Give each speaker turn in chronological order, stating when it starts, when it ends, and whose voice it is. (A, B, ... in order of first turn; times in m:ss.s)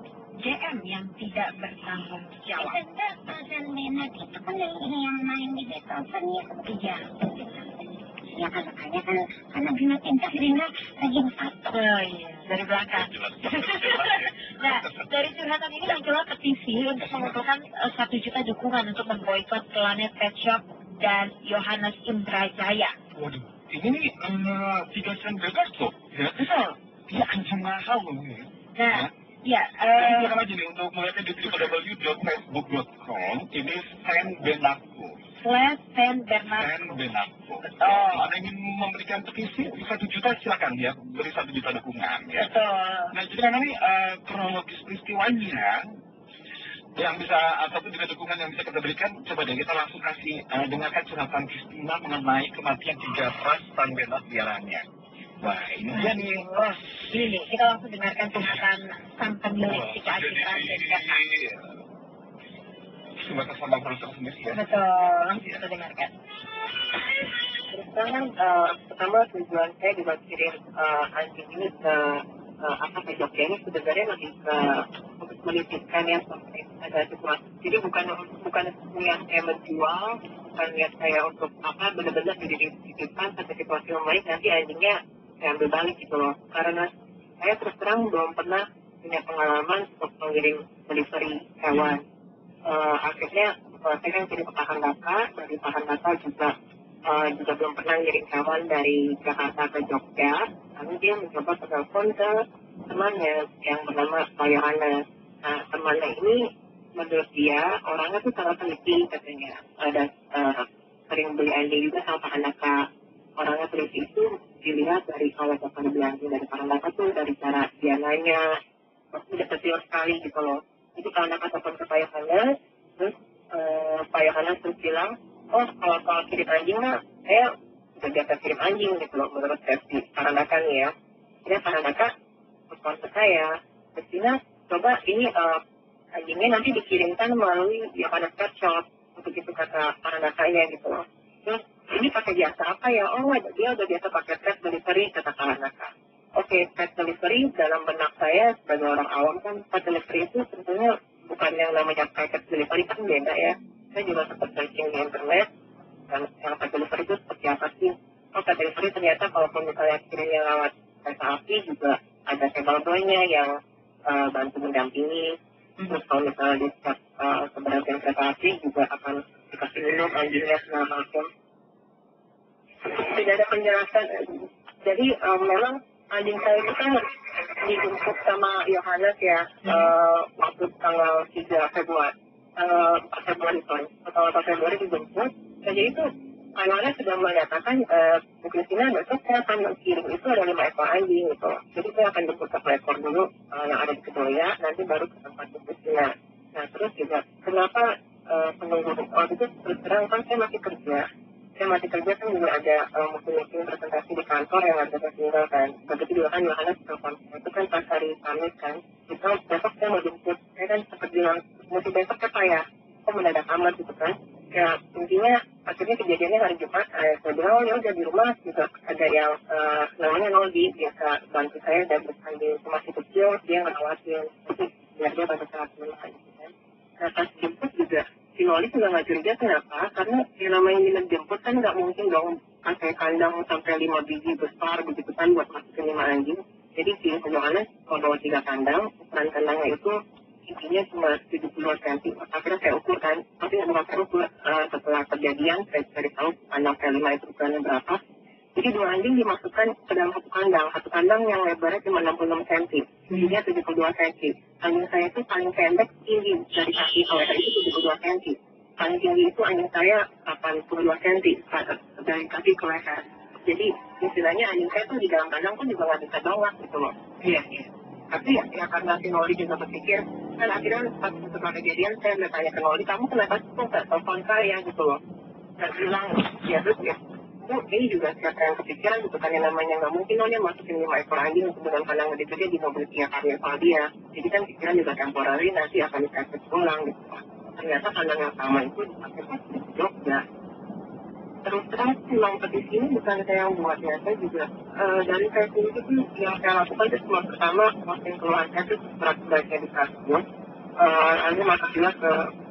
0:00.4-0:02.8 A
0:02.6-0:11.8 B
0:06.7-0:07.0 A
0:11.7-0:22.9 A
0:12.9-0:15.1 C
0:23.1-0:26.4 C
0:26.4-0:26.8 A
0:27.1-0:29.1 C
0:28.8-0:30.4 A
0:29.9-0:35.2 C
0:35.4-0:37.0 A
0:36.6-0:42.5 C
0:37.7-0:38.2 A
0:42.3-0:43.1 A
0:43.1-0:45.8 C
0:47.0-0:54.8 C
0:55.4-0:56.4 C
0:55.9-1:01.2 A
0:59.6-1:01.7 C
1:03.2-1:04.6 C
1:04.5-1:06.1 A
1:05.4-1:05.6 C
1:07.7-1:26.9 D
1:27.4-1:32.0 D
1:32.7-1:36.5 D
1:37.1-1:42.3 D
1:42.9-1:46.4 D
1:47.0-1:52.8 D
1:53.4-1:58.4 D
1:59.1-2:02.4 D
2:03.0-2:10.9 D
2:11.4-2:12.1 D
2:12.7-2:15.6 D
2:16.2-2:35.5 D
2:36.1-2:43.5 D
2:44.1-2:51.3 D
2:52.8-3:21.0 D
3:21.6-3:59.9 D
4:00.5-4:08.0 D
4:08.6-4:35.0 D
4:35.6-4:50.2 D
4:51.4-5:00.2 D
5:00.8-5:02.2 D